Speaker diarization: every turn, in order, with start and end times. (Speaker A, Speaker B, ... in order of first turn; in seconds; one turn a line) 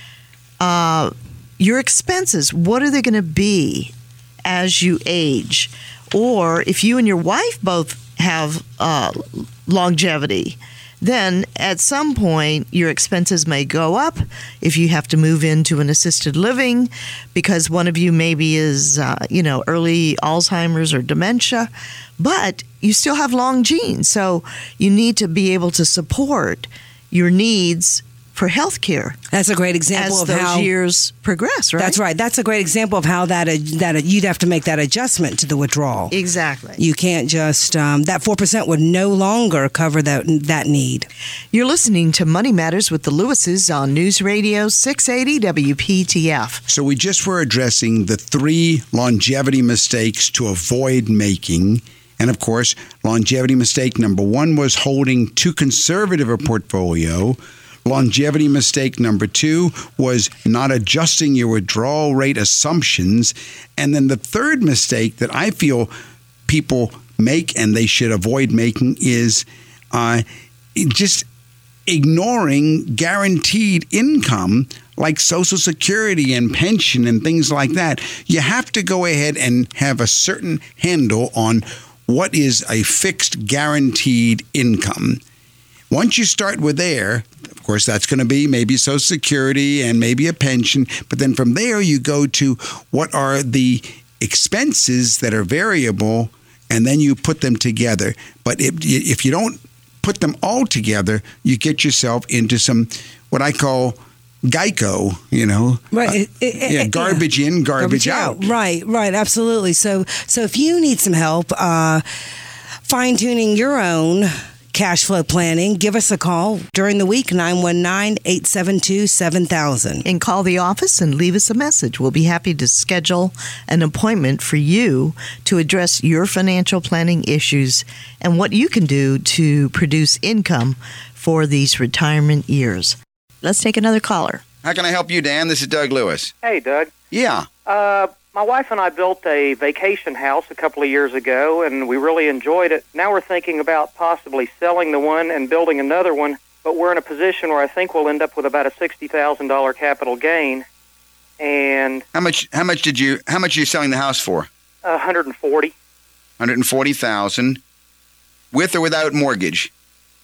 Speaker A: 0.6-3.9
Speaker A: 4.5-29.2
Speaker B: 29.3-30.7
Speaker A: 29.9-32.0
Speaker B: 31.8-36.1
Speaker A: 36.1-36.8
Speaker B: 36.8-41.1
Speaker A: 41.5-46.6
Speaker C: 46.7-65.9
Speaker C: 66.5-70.2
Speaker C: 70.8-71.3
Speaker C: 71.9-85.2
Speaker C: 85.9-108.5
Speaker B: 105.9-107.2
Speaker B: 107.8-112.0
Speaker B: 112.9-120.0
Speaker A: 120.0-134.4
Speaker D: 134.6-136.3
Speaker E: 136.4-136.9
Speaker D: 137.1-137.5
Speaker E: 137.7-150.7
Speaker E: 151.4-152.0
Speaker D: 152.1-154.5
Speaker E: 154.8-155.7
Speaker D: 156.4-157.6
Speaker D: 158.5-159.7